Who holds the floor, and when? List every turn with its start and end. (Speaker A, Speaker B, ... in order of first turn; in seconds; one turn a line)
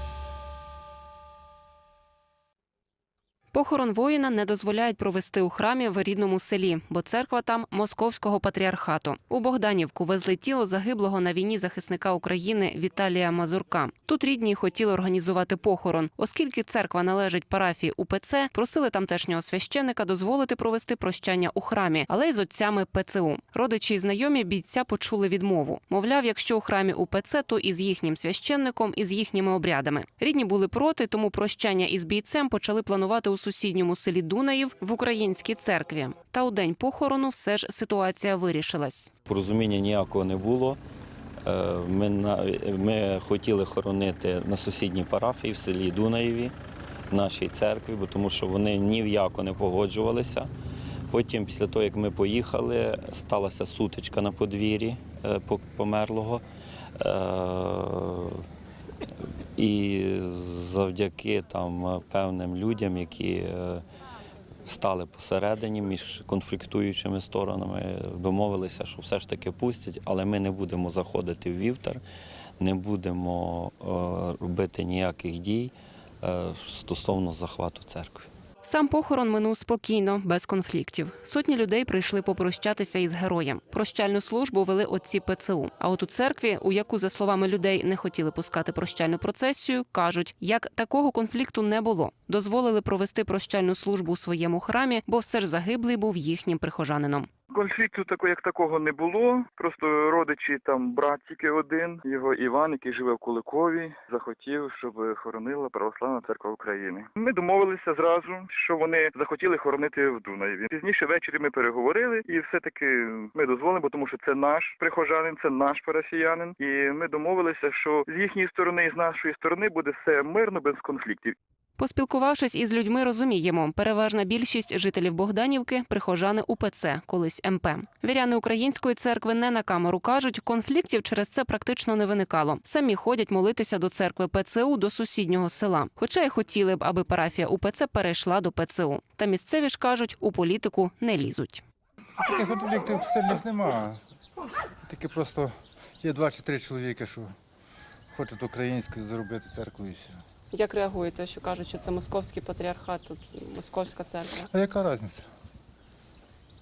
Speaker A: 3.5-39.1
Speaker B: 39.3-40.8
Speaker B: 41.4-46.5
Speaker B: 47.1-50.5
Speaker B: 51.1-56.4
Speaker B: 57.0-58.4
Speaker B: 59.6-63.8
Speaker B: 64.7-72.0
Speaker B: 72.6-78.3
Speaker A: 78.6-97.3
Speaker C: 97.5-121.3
Speaker A: 121.8-141.6
Speaker D: 142.2-144.0
Speaker D: 144.9-147.3
Speaker D: 148.1-150.2
Speaker E: 150.5-154.5
Speaker D: 154.5-155.3